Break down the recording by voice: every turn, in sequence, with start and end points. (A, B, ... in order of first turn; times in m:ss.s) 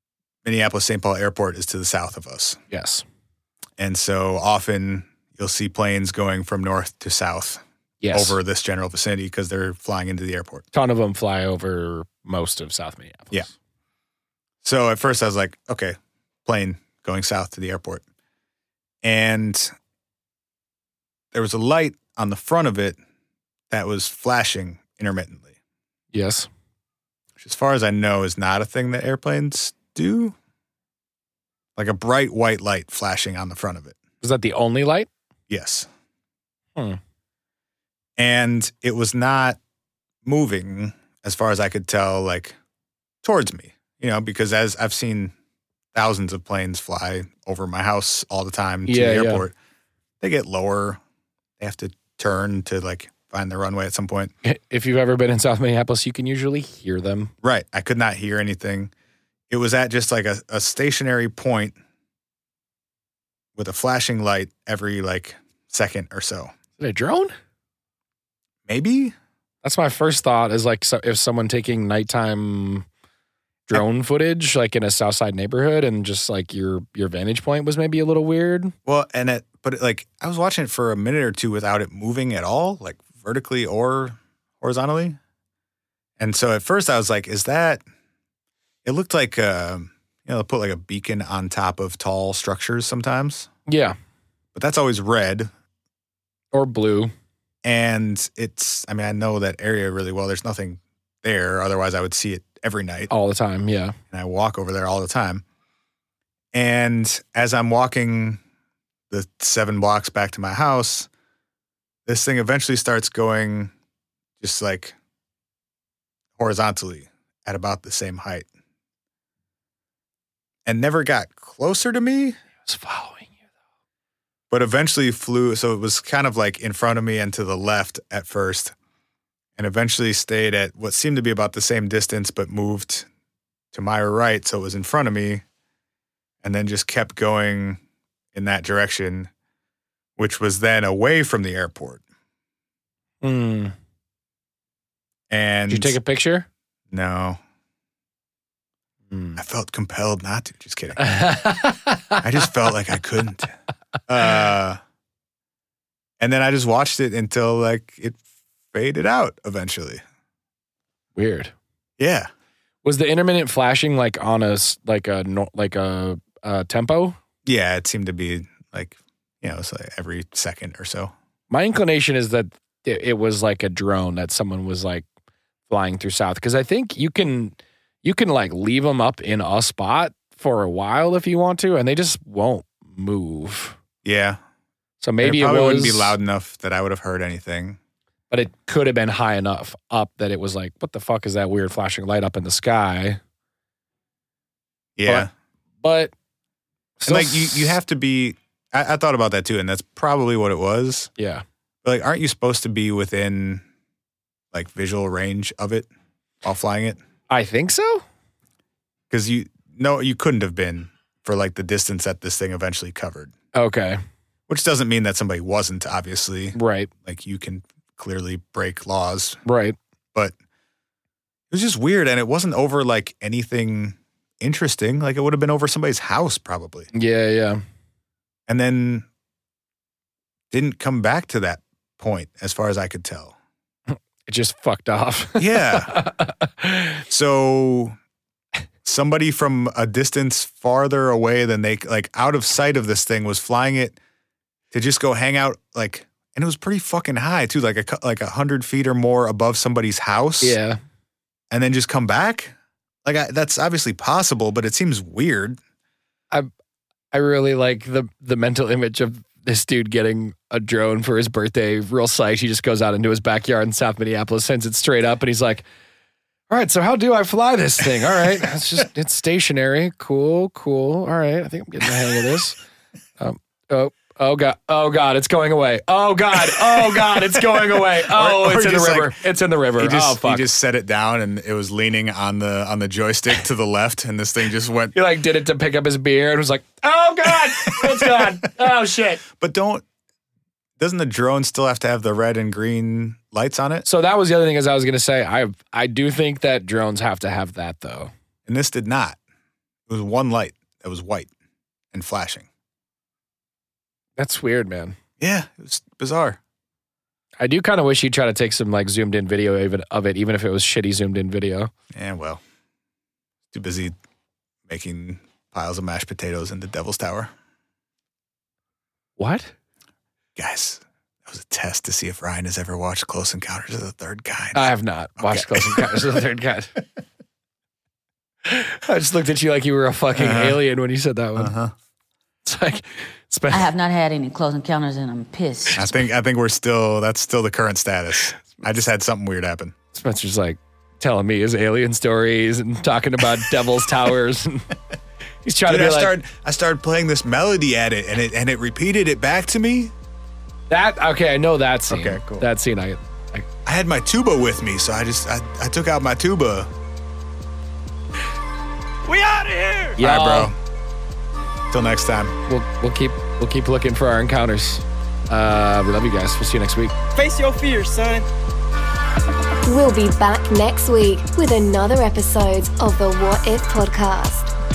0:00.4-0:02.6 A
0:02.7-0:03.0 B
0:03.8-0:07.6 A
0:08.0-0:08.4 B
0:08.1-0:10.7 A
0:10.7-0:13.5 B
0:14.6-0:18.0 A
0:19.0-0:19.7 A
0:21.3-0:23.0 A
0:23.7-0:25.5 A
0:26.1-0:26.5 B
0:27.4-0:30.3 A
0:31.8-0:34.0 A
0:34.2-0:35.1 B
0:35.5-0:35.9 A
0:38.2-0:39.6 A
0:40.2-0:42.6 A
0:43.2-0:45.3 A
0:45.9-0:49.5 A
0:48.9-0:49.4 B
0:50.2-0:51.0 A
0:51.6-0:54.3 A
0:54.4-0:57.3 B
0:57.4-0:58.9 A
0:59.5-1:01.8 A
1:03.6-1:06.5 A
1:06.8-1:07.3 B
1:08.7-1:09.1 A
1:09.6-1:12.8 B
1:13.7-1:18.7 B
1:18.8-1:25.2 A
1:26.2-1:27.8 A
1:28.8-1:33.5 A
1:33.7-1:34.0 B
1:34.5-1:35.5 A
1:36.5-1:37.1 B
1:37.6-1:43.1 A
1:43.1-1:44.0 B
1:44.1-1:45.4 A
1:46.5-1:48.4 A
1:49.1-1:51.1 A
1:52.0-1:53.7 A
1:54.4-1:54.9 A
1:56.4-1:58.5 A
2:00.6-2:02.4 A
2:02.6-2:03.3 B
2:04.5-2:08.7 A
2:09.6-2:13.1 A
2:13.7-2:15.4 A
2:16.4-2:17.8 A
2:18.3-2:19.3 A
2:20.2-2:22.0 A
2:23.2-2:23.7 B
2:25.3-2:26.0 A
2:25.7-2:26.5 B
2:26.9-2:27.4 A
2:29.1-2:29.4 B
2:29.4-2:31.0 A
2:31.0-2:32.2 B
2:32.2-2:33.5 A
2:34.1-2:34.8 A
2:36.2-2:38.2 A
2:38.7-2:40.0 A
2:41.2-2:41.5 B
2:42.0-2:42.3 A
2:42.8-2:47.2 B
2:47.4-2:51.1 A
2:51.5-2:55.0 B
2:55.7-3:03.8 B
3:04.0-3:04.4 A
3:05.0-3:06.2 B
3:05.2-3:07.8 A
3:08.3-3:13.2 B
3:15.0-3:15.3 A
3:15.8-3:16.1 B
3:17.0-3:17.8 B
3:17.0-3:21.1 A
3:21.2-3:21.4 B
3:21.8-3:23.6 A
3:24.5-3:25.9 A
3:26.4-3:27.0 A
3:27.3-3:28.0 B
3:29.1-3:33.3 A
3:33.5-3:34.0 B
3:34.5-3:39.4 A
3:36.5-3:36.9 B
3:39.4-3:39.8 B
3:41.5-3:46.9 A
3:46.9-3:47.6 B
3:48.5-3:49.0 A
3:50.5-3:53.3 A
3:53.9-3:57.0 B
3:55.4-3:55.9 A
3:57.1-3:58.0 A
3:58.8-4:04.0 A
4:04.7-4:10.6 A
4:10.4-4:10.8 B
4:11.5-4:12.5 A
4:13.0-4:15.6 A
4:17.1-4:25.6 B
4:26.5-4:32.6 B
4:33.2-4:40.5 B
4:36.4-4:39.2 A
4:39.8-4:44.9 A
4:44.9-4:49.2 B
4:47.3-4:48.3 A
4:49.3-4:49.8 A
4:50.8-4:53.8 A
4:53.8-4:58.1 B
4:58.4-4:59.2 A
4:59.9-5:01.3 A
5:01.9-5:02.5 A
5:04.2-5:05.0 B
5:05.2-5:06.4 A
5:07.4-5:11.7 B
5:11.9-5:12.4 A
5:13.5-5:13.9 A
5:14.7-5:17.3 A
5:19.2-5:19.5 B
5:20.4-5:26.1 A
5:24.5-5:26.7 B
5:28.4-5:31.5 B
5:30.1-5:30.6 A
5:31.4-5:31.7 A
5:32.4-5:33.7 B
5:33.5-5:36.0 C
5:35.7-5:39.7 A
5:39.9-5:44.7 B
5:45.4-5:46.1 B
5:45.6-5:49.9 A
5:50.7-5:53.4 B
5:51.9-5:52.5 A
5:53.6-5:56.7 A
5:59.1-6:00.0 D
6:00.0-6:00.5 B
6:00.0-6:00.6 A
6:01.7-6:02.3 A
6:02.5-6:06.9 B
6:07.2-6:08.2 D
6:09.6-6:14.5 E